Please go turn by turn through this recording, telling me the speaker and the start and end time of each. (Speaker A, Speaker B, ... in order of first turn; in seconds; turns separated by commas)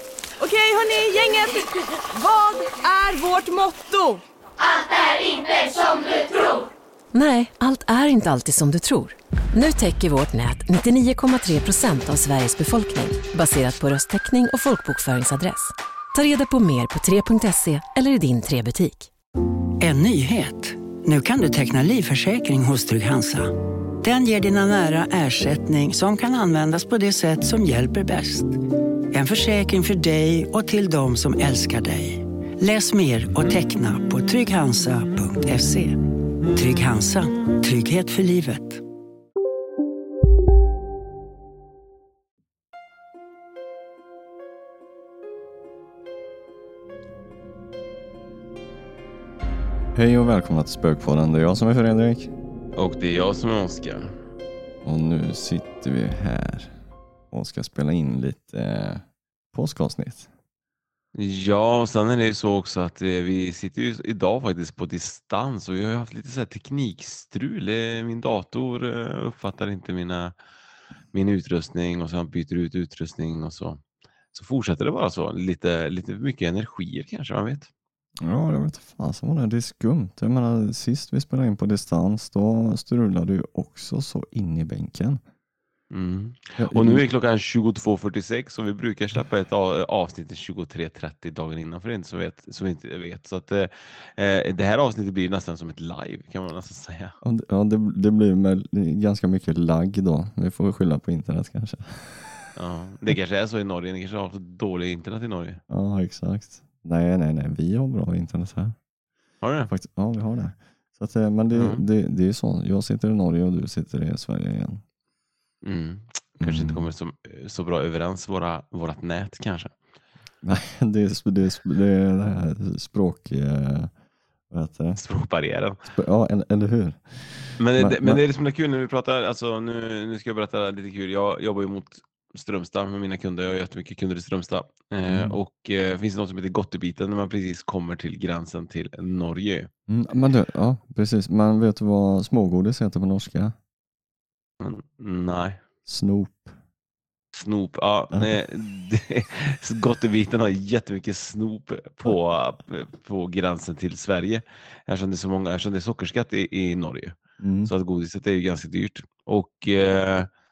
Speaker A: 0.4-4.2, Speaker B: 7.1-19.1, Speaker C: 19.8-28.6, Speaker C: 29.1-38.8, Speaker D: 49.9-52.3, Speaker E: 52.8-54.1, Speaker D: 54.8-56.8, Speaker D: 57.3-60.3, Speaker E: 61.1-70.3, Speaker E: 71.1-73.8, Speaker E: 74.3-77.7, Speaker D: 78.2-85.2, Speaker E: 85.9-97.2, Speaker D: 86.6-87.0, Speaker D: 97.2-102.5, Speaker E: 102.5-105.6, Speaker D: 105.7-108.8, Speaker E: 109.4-109.7, Speaker D: 109.7-114.8, Speaker E: 111.5-111.8, Speaker E: 115.6-119.7, Speaker D: 116.4-116.9, Speaker D: 120.4-123.9, Speaker D: 124.5-125.0, Speaker E: 125.0-125.8, Speaker D: 125.8-128.2, Speaker E: 127.6-139.7, Speaker D: 135.1-135.4, Speaker D: 139.9-143.6, Speaker E: 144.6-145.6, Speaker D: 145.8-146.5, Speaker E: 147.3-160.3, Speaker D: 157.4-157.7